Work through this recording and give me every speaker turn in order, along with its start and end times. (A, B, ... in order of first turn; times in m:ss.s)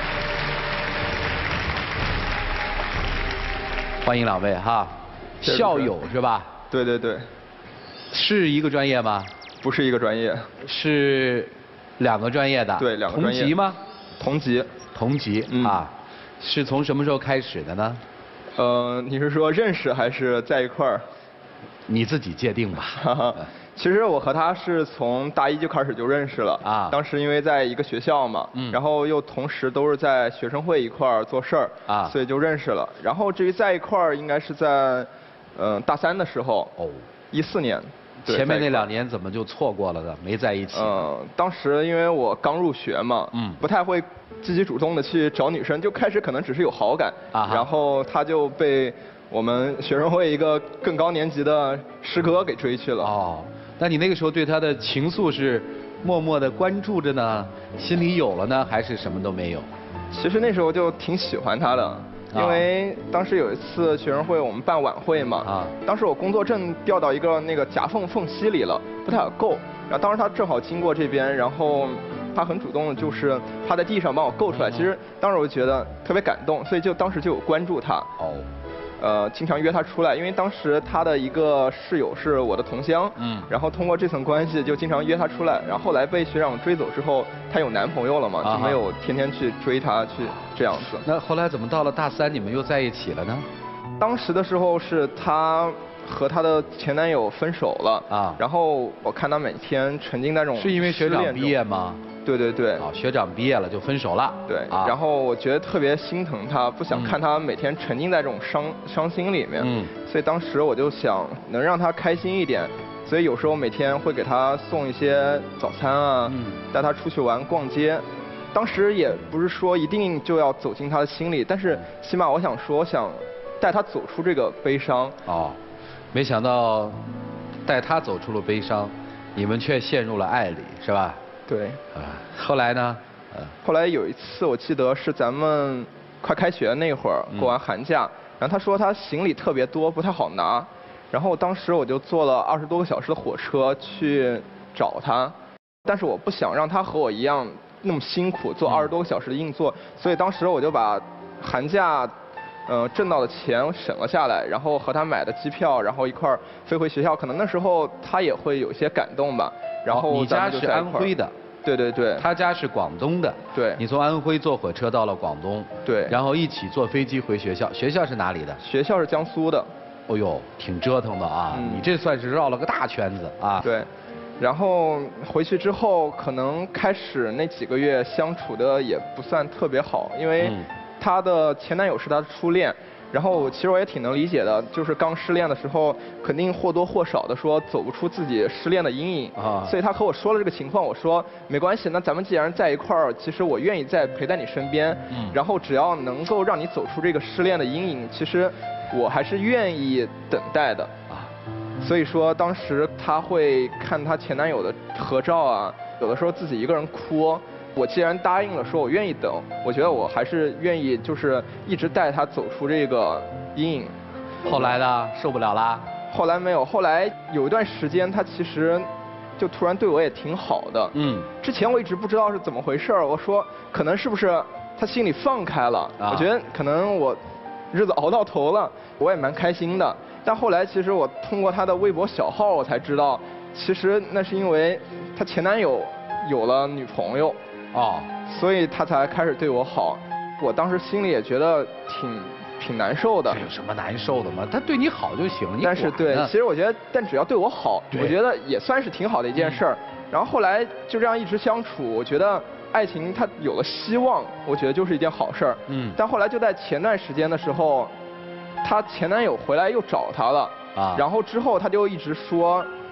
0:04.0-0:06.5 A
0:05.4-0:05.9 B
0:06.7-0:07.3 B
0:08.1-0:09.3 A
0:09.6-0:10.5 B
0:10.6-0:13.8 A
0:12.8-0:13.6 B
0:14.2-0:14.7 B
0:14.9-0:18.0 A
0:15.5-0:15.8 B
0:18.6-0:21.0 B
0:21.9-0:23.0 A
0:23.0-0:36.7 B
0:26.6-0:27.0 A
0:31.9-0:32.1 A
0:36.8-0:37.0 A
0:37.3-0:38.9 B
0:38.2-0:41.1 A
0:40.7-0:53.1 B
0:43.3-0:43.6 A
0:47.3-0:47.7 A
0:53.0-0:59.7 A
1:00.1-1:18.1 B
1:02.3-1:02.6 A
1:05.4-1:05.7 A
1:14.5-1:14.9 A
1:18.2-1:18.4 A
1:19.0-1:31.0 B
1:23.2-1:23.5 A
1:28.4-1:28.8 A
1:31.0-1:33.4 A
1:34.0-1:41.6 B
1:38.1-1:38.4 A
1:40.6-1:42.0 A
1:42.2-1:42.8 B
1:42.8-1:44.9 A
1:44.5-2:05.2 B
1:46.9-1:47.2 A
1:49.6-1:49.9 A
1:56.3-1:56.6 A
2:05.2-2:05.6 A
2:06.1-2:07.0 A
2:07.6-2:11.2 A
2:11.5-2:11.8 B
2:11.9-2:13.5 A
2:13.6-2:32.1 B
2:32.7-2:41.1 B
2:39.9-2:41.3 A
2:41.6-2:42.3 B
2:42.2-2:48.6 A
2:43.5-2:43.8 B
2:45.8-2:46.2 B
2:48.6-2:49.7 B
2:50.1-2:53.7 A
2:51.5-2:51.9 B
2:53.6-2:53.9 B
2:54.4-3:20.9 B
3:00.4-3:00.6 A
3:09.4-3:09.7 A
3:15.1-3:15.4 A
3:21.8-3:34.0 B
3:34.4-3:35.8 A
3:34.5-3:34.7 B
3:36.1-3:47.2 B
3:40.9-3:41.3 A
3:46.0-3:46.3 A
3:47.7-3:57.4 B
3:57.7-3:58.1 A
3:58.2-4:03.4 B
4:03.3-4:06.3 A
4:05.6-4:17.9 B
4:09.4-4:09.6 A
4:15.7-4:16.0 A
4:18.6-4:22.7 B
4:20.7-4:21.0 A